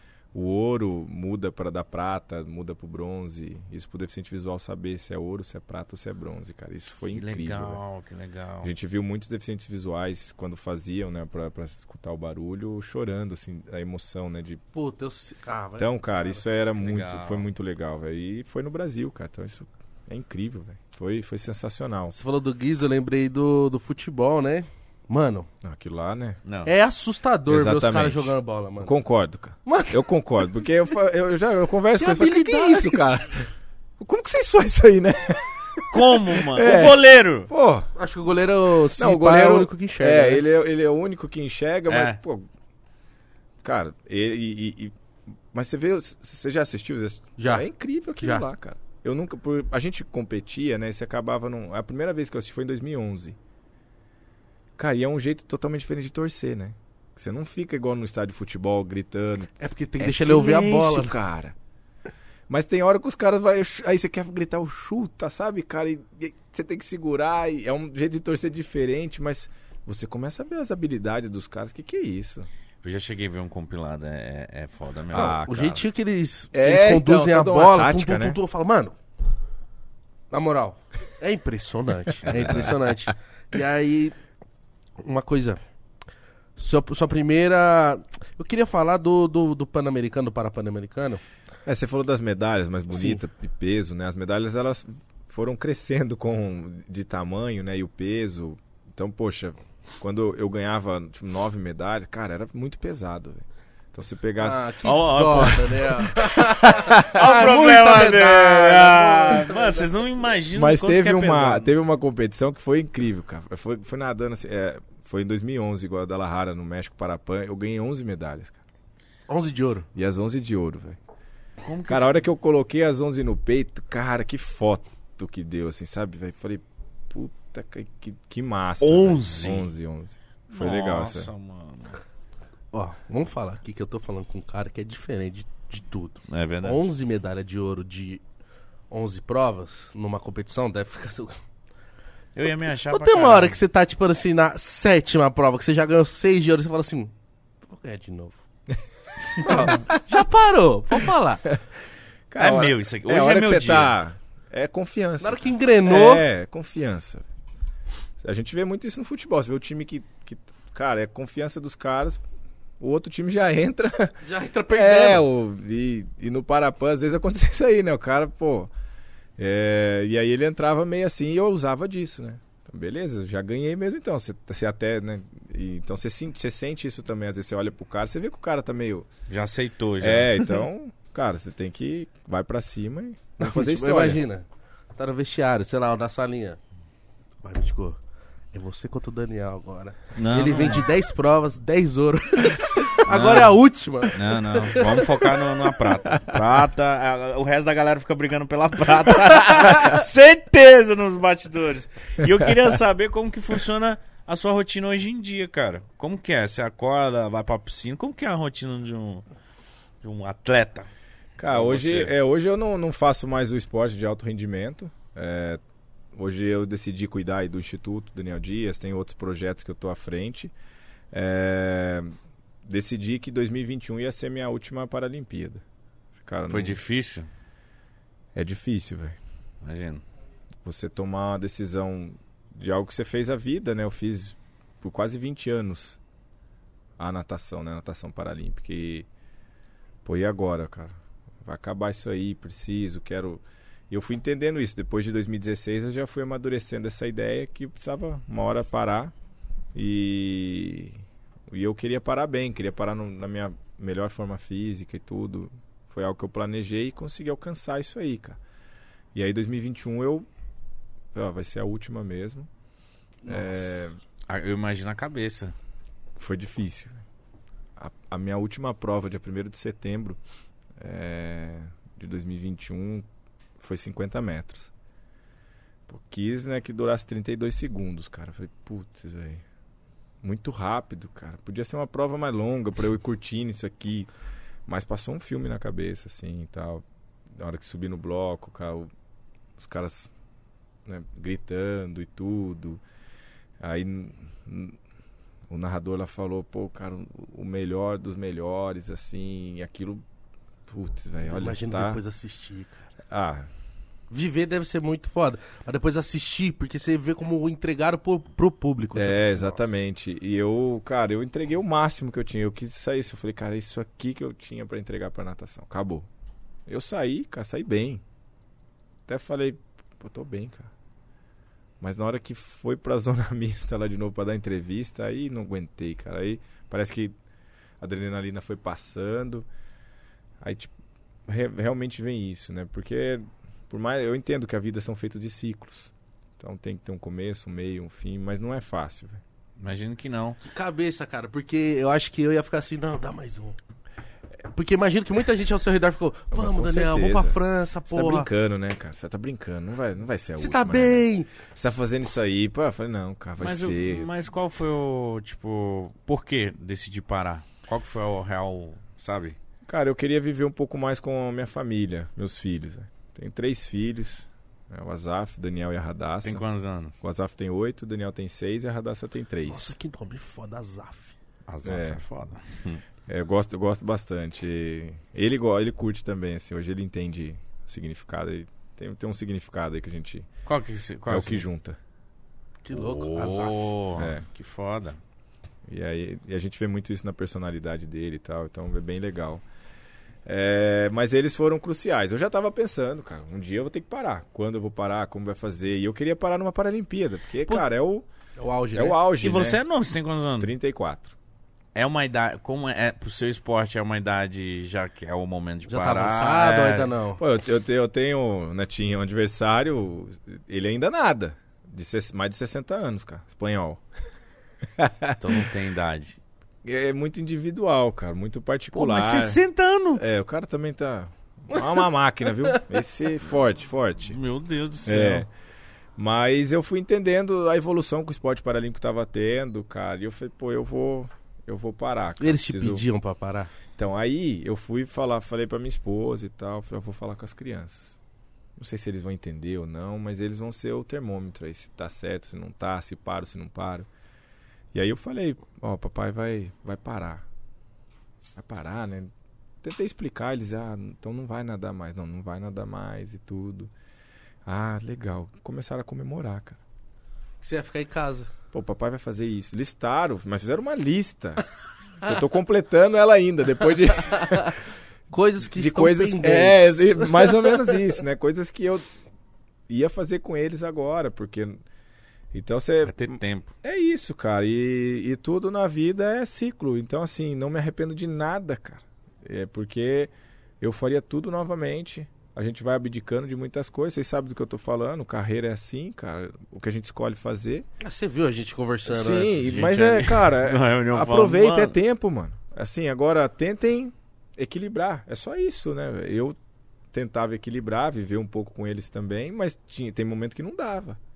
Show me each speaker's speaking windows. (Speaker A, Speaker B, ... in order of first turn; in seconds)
Speaker A: 0.3-7.8, 8.6-14.6, 15.8-22.1, 25.6-26.4, 27.5-37.9, 39.0-42.5, 43.6-44.9, 45.5-53.4, 54.8-61.5, 62.5-72.5, 75.1-75.8, 76.5-78.4, 91.6-104.6, 105.2-105.5, 106.8-107.1, 110.5-118.6, 119.9-121.0, 121.9-131.3, 149.7-149.9, 152.3-157.2, 158.2-162.2, 162.8-164.2, 164.7-168.7, 169.4-179.1, 180.0-184.2, 211.4-215.6, 216.1-220.5, 221.1-222.1, 222.6-225.6, 226.2-226.8, 228.3-229.2, 230.6-236.0, 237.0-239.1, 240.0-249.1, 249.7-258.4, 259.1-260.3, 261.1-262.5, 263.3-264.0, 266.2-267.0, 267.8-270.2, 270.8-273.1, 273.6-274.7, 275.9-279.4, 280.2-284.1, 284.7-286.8, 287.3-288.9, 289.6-290.1, 290.8-292.8, 293.6-294.8, 295.5-300.0, 300.7-302.0, 303.1-303.5, 308.9-316.1, 316.6-318.0, 319.1-320.7, 321.8-327.1, 327.8-329.5, 330.4-330.7, 331.3-339.2, 346.3-354.1, 359.7-366.4, 367.0-369.8, 371.6-372.0, 373.1-380.3, 381.1-381.8, 383.9-384.2, 385.7-389.4, 390.2-398.1, 398.7-399.6, 400.4-401.1, 407.2-413.8, 414.8-415.4, 416.6-419.4, 419.9-424.2, 424.8-425.3, 426.0-432.8, 433.8-438.0, 438.6-443.9, 444.7-447.2, 448.4-449.1, 449.6-453.7, 454.4-456.6, 458.5-461.4, 462.0-464.5, 465.4-468.8, 469.7-471.6, 472.3-487.7, 488.9-496.4, 496.9-501.0
Speaker B: 7.1-8.7, 16.7-17.4, 26.4-26.7, 35.9-37.5, 41.9-42.2, 72.8-75.4, 82.3-82.7, 104.8-106.0, 107.0-111.7, 121.6-122.2, 128.8-129.7, 130.5-132.0, 136.3-136.9, 142.3-143.6, 152.4-153.9, 179.3-180.6, 190.2-190.8, 193.1-209.2, 210.0-210.9, 211.5-212.1, 226.5-227.3, 229.6-230.0, 264.3-265.5, 339.6-340.4, 353.4-359.4, 366.2-367.0, 371.5-372.8, 380.4-381.4, 382.7-385.0, 399.2-400.5, 401.7-406.9, 415.2-416.2, 418.7-420.0, 424.0-425.2, 472.9-473.5, 489.4-491.7
Speaker C: 14.7-16.1, 22.1-25.5, 26.6-28.9, 29.6-30.0, 31.9-33.1, 37.9-40.4, 47.4-47.7, 59.6-61.1, 75.1-79.0, 80.3-84.2, 85.0-85.6, 86.5-91.2, 104.4-109.8, 119.3-119.9, 132.7-138.2, 138.9-141.4, 142.9-147.1, 147.6-148.4, 149.4-151.5, 155.2-156.3, 164.2-165.2, 183.4-186.6, 187.4-188.0, 188.5-195.1, 263.2-263.5, 301.2-302.9, 304.1-309.6, 340.4-343.6, 344.5-348.3, 350.4-351.3, 369.4-371.1, 382.6-383.8, 398.4-399.0, 405.7-407.2, 432.2-433.5, 457.4-458.3, 464.1-464.5, 465.1-467.6, 487.8-489.5